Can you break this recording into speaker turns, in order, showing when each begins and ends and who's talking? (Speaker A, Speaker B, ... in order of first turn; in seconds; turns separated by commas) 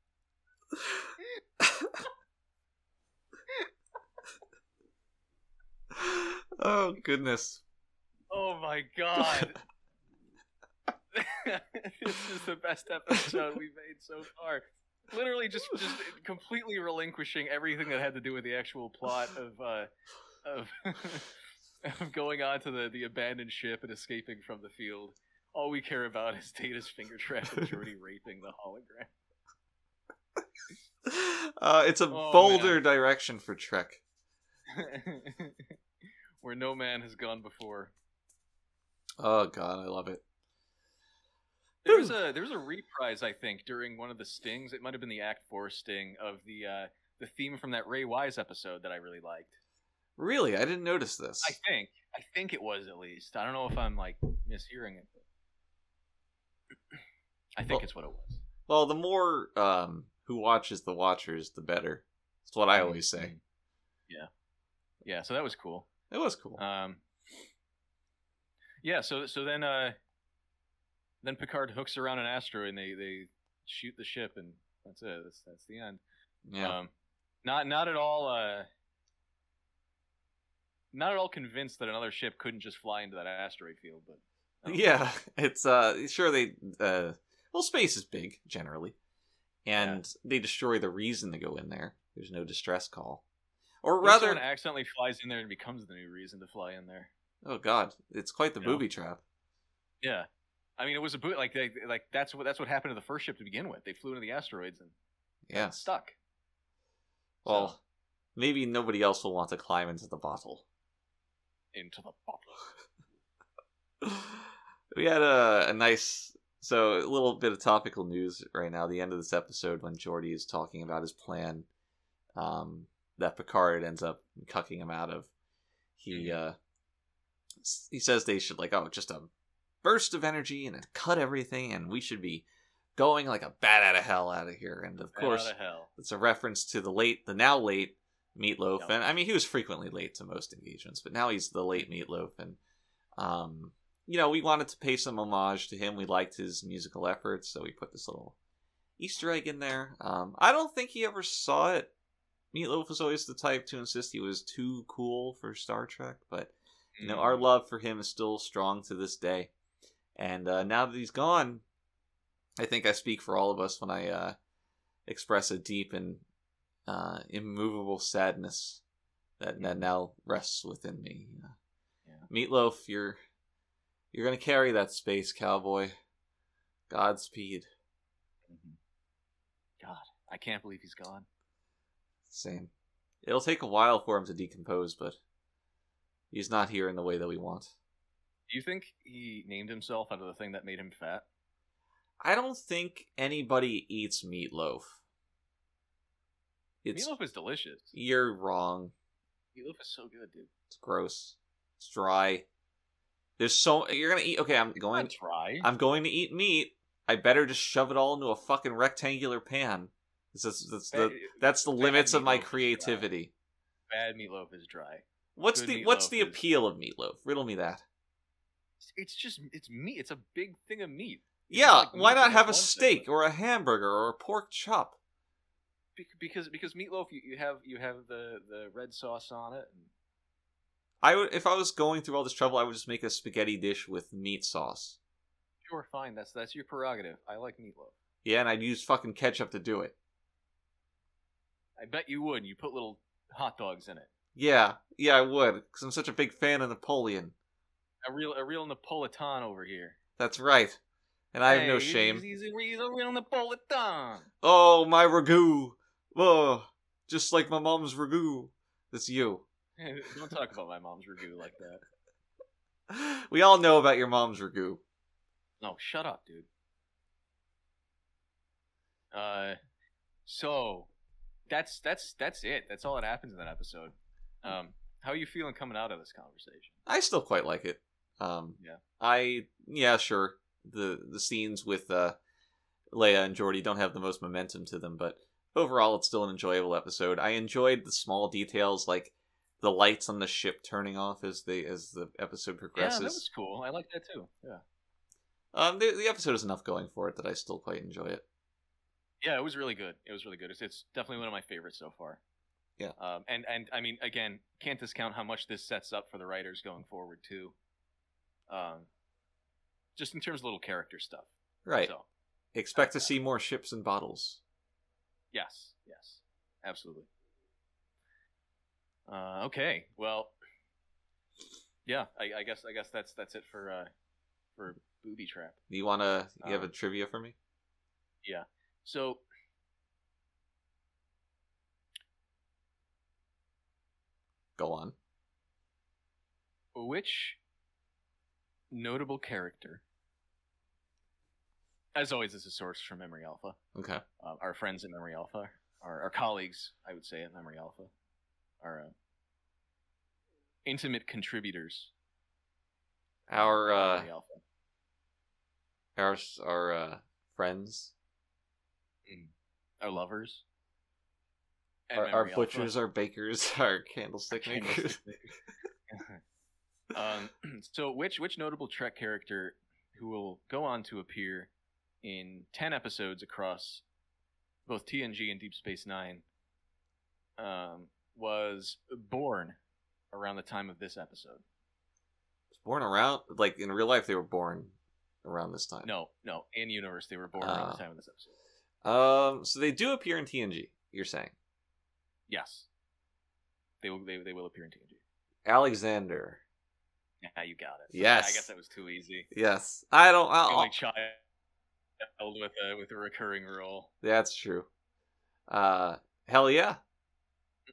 Speaker A: 1.6-1.9, Speaker A: 5.9-7.6, Speaker B: 8.3-9.6, Speaker B: 11.1-19.9, Speaker B: 20.4-21.3, Speaker B: 21.8-29.1, Speaker A: 31.1-34.0, Speaker B: 32.1-32.8, Speaker B: 34.7-35.8, Speaker B: 36.4-37.9, Speaker A: 39.2-40.2, Speaker B: 41.9-49.6, Speaker A: 41.9-42.1, Speaker A: 50.2-51.6, Speaker B: 51.4-55.1, Speaker B: 57.6-58.4, Speaker A: 58.7-63.3, Speaker B: 62.7-63.4, Speaker B: 65.0-65.9, Speaker A: 66.1-66.6, Speaker B: 66.6-67.0, Speaker B: 68.8-70.0, Speaker B: 71.2-76.0, Speaker A: 76.5-76.8, Speaker B: 76.6-76.9, Speaker B: 77.4-78.7, Speaker B: 80.9-84.9, Speaker A: 84.7-89.0, Speaker A: 89.7-93.2, Speaker B: 89.8-90.0, Speaker A: 93.8-94.4, Speaker B: 94.0-97.1, Speaker A: 97.4-99.2, Speaker B: 100.0-105.0, Speaker A: 105.5-105.8, Speaker B: 105.5-106.2, Speaker A: 107.4-107.8, Speaker B: 107.5-107.8, Speaker A: 108.4-110.7, Speaker B: 111.7-112.6, Speaker A: 114.0-121.7, Speaker A: 122.4-125.3, Speaker A: 126.0-126.6, Speaker B: 126.1-126.4, Speaker A: 127.6-129.3, Speaker A: 129.8-142.6, Speaker B: 135.1-135.9, Speaker A: 143.2-148.4, Speaker A: 149.0-151.9, Speaker A: 152.5-159.5, Speaker B: 157.0-157.4, Speaker A: 160.2-161.6, Speaker A: 162.6-164.4, Speaker A: 165.1-166.2, Speaker A: 166.9-168.8, Speaker A: 169.4-171.6, Speaker B: 169.6-169.8, Speaker A: 172.3-173.2, Speaker A: 174.1-175.9, Speaker A: 176.9-177.7, Speaker B: 178.5-178.8, Speaker B: 179.8-181.3, Speaker A: 182.3-182.7, Speaker A: 183.2-185.2, Speaker A: 186.3-187.7, Speaker B: 188.5-191.3, Speaker A: 192.2-195.0, Speaker A: 196.8-197.1, Speaker B: 196.9-198.0, Speaker A: 197.9-198.9, Speaker B: 199.6-200.5, Speaker A: 200.7-202.5, Speaker A: 203.4-213.3, Speaker B: 204.9-205.7, Speaker B: 210.9-213.1, Speaker B: 213.9-216.4, Speaker A: 215.4-217.8, Speaker B: 218.8-223.1, Speaker A: 221.5-225.0, Speaker B: 226.0-229.9, Speaker A: 231.0-235.0, Speaker B: 235.7-238.0, Speaker A: 238.2-239.9, Speaker B: 241.8-244.1, Speaker A: 244.4-247.3, Speaker B: 248.0-250.0, Speaker A: 250.2-250.8, Speaker A: 251.3-252.2, Speaker B: 251.5-254.3, Speaker A: 254.4-259.4, Speaker B: 259.8-261.8, Speaker A: 262.9-264.8, Speaker B: 265.6-266.5, Speaker B: 269.1-269.6, Speaker B: 270.3-270.9, Speaker B: 271.5-276.8, Speaker A: 276.9-282.2, Speaker A: 282.9-293.2, Speaker B: 292.8-294.6, Speaker A: 295.5-298.2, Speaker B: 299.2-302.2, Speaker B: 303.0-307.6, Speaker B: 308.5-308.9, Speaker B: 310.0-312.1, Speaker A: 311.6-311.9, Speaker A: 312.5-314.4, Speaker B: 312.8-313.1, Speaker B: 315.3-317.1, Speaker B: 319.1-320.4, Speaker B: 321.9-323.9, Speaker B: 324.6-325.6, Speaker A: 325.7-327.4, Speaker B: 326.4-326.7, Speaker B: 328.2-329.2, Speaker A: 334.6-334.9, Speaker B: 336.8-337.4, Speaker B: 338.7-339.8, Speaker B: 341.9-343.6, Speaker A: 343.8-344.0, Speaker B: 344.2-347.9, Speaker B: 348.6-348.9, Speaker B: 350.6-351.9, Speaker A: 353.3-354.1, Speaker B: 353.4-354.4, Speaker A: 356.0-357.9, Speaker B: 359.1-360.4, Speaker B: 361.9-362.8, Speaker A: 361.9-365.0, Speaker B: 364.3-365.4, Speaker B: 365.9-366.2, Speaker B: 366.9-371.5, Speaker B: 372.0-373.8, Speaker B: 374.7-376.2, Speaker B: 377.4-379.6, Speaker B: 380.1-381.4, Speaker A: 382.5-385.9, Speaker B: 385.8-388.4, Speaker A: 387.4-387.8, Speaker A: 388.8-391.3, Speaker B: 392.3-392.7, Speaker B: 393.8-395.0, Speaker A: 395.4-396.4, Speaker B: 397.2-399.3, Speaker A: 397.9-398.5, Speaker A: 399.3-400.7, Speaker B: 400.5-401.2, Speaker B: 402.0-403.9, Speaker A: 404.0-404.7, Speaker A: 405.5-406.8